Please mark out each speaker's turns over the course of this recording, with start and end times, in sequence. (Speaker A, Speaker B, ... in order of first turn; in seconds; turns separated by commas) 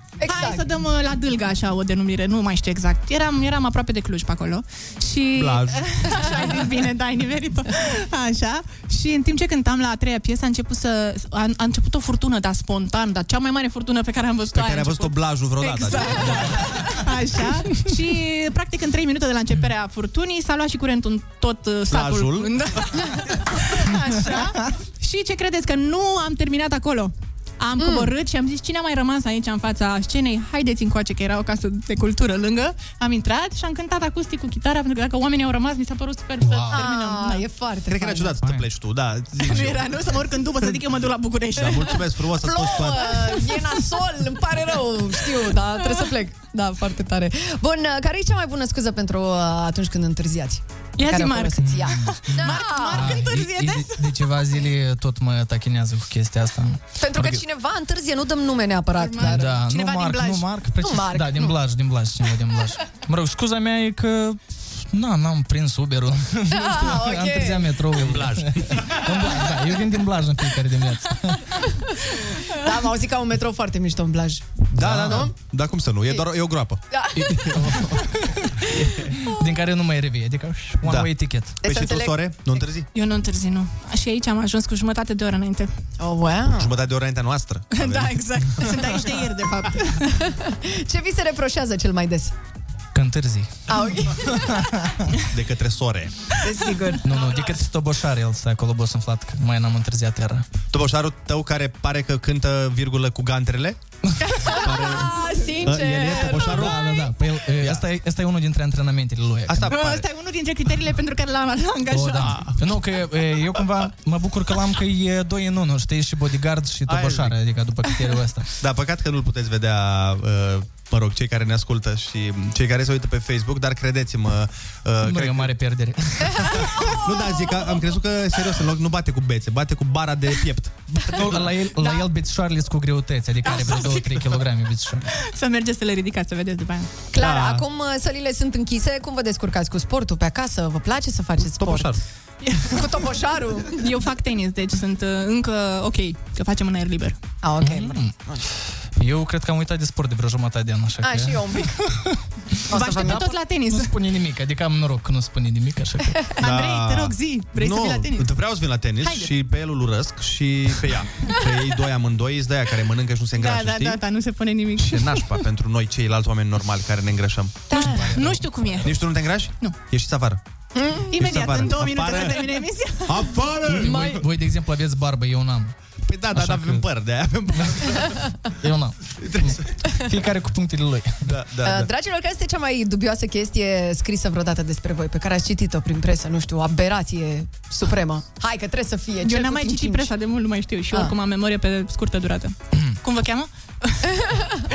Speaker A: 0.2-0.7, Speaker B: 0.2-37.4, Speaker C: 5.3-5.8, Speaker C: 14.5-16.8, Speaker C: 21.9-22.6, Speaker A: 27.8-28.1, Speaker D: 36.4-36.9, Speaker A: 36.7-38.4, Speaker C: 37.9-40.0, Speaker B: 39.5-42.0, Speaker C: 41.5-43.3, Speaker A: 42.4-53.2, Speaker B: 51.0-54.1, Speaker D: 51.6-57.4, Speaker A: 57.0-59.6, Speaker B: 59.0-60.5, Speaker D: 59.2-71.4, Speaker A: 60.8-61.6, Speaker A: 66.5-67.7, Speaker A: 72.5-75.3, Speaker C: 74.7-76.8, Speaker D: 74.8-75.3, Speaker A: 76.9-77.5, Speaker D: 77.2-78.2, Speaker D: 79.2-81.5, Speaker C: 80.8-81.1, Speaker A: 81.6-82.4, Speaker C: 81.6-82.9, Speaker B: 82.9-85.7, Speaker A: 86.0-86.7, Speaker C: 86.6-88.2, Speaker B: 87.7-90.0, Speaker A: 90.1-92.3, Speaker D: 92.9-93.5, Speaker A: 93.7-94.5, Speaker D: 94.4-94.9, Speaker C: 95.3-96.1, Speaker A: 96.4-97.0, Speaker D: 97.0-100.5, Speaker C: 100.7-103.8, Speaker A: 104.3-107.1, Speaker C: 104.4-106.8, Speaker D: 106.4-109.9, Speaker C: 107.6-107.8, Speaker C: 109.5-110.1, Speaker B: 109.7-112.4, Speaker D: 111.9-118.5, Speaker C: 112.2-112.7, Speaker C: 116.9-117.4, Speaker C: 118.6-125.5, Speaker D: 125.0-126.7, Speaker A: 126.3-127.5, Speaker C: 126.4-131.6, Speaker D: 131.0-135.0, Speaker C: 133.6-134.2, Speaker B: 135.3-136.9, Speaker A: 137.1-142.0, Speaker C: 137.2-137.6, Speaker A: 142.7-143.8, Speaker B: 143.8-147.2, Speaker A: 147.4-148.4, Speaker D: 147.6-148.1, Speaker D: 149.0-151.7, Speaker A: 151.0-151.8, Speaker A: 152.7-153.3, Speaker B: 152.7-153.9, Speaker D: 152.9-156.1, Speaker B: 156.4-158.2, Speaker C: 156.4-164.0, Speaker B: 159.0-159.3, Speaker B: 163.4-165.3, Speaker C: 164.8-167.7, Speaker A: 167.7-168.1, Speaker D: 167.7-168.8, Speaker B: 167.7-169.0, Speaker C: 168.8-170.4, Speaker A: 170.7-171.1, Speaker B: 171.1-173.3, Speaker C: 171.1-174.2, Speaker D: 173.7-175.7, Speaker A: 173.8-174.2, Speaker C: 176.1-178.1, Speaker D: 176.3-176.8, Speaker D: 178.6-181.2, Speaker C: 179.2-179.6, Speaker C: 181.2-181.9, Speaker A: 181.6-190.1, Speaker B: 189.2-193.9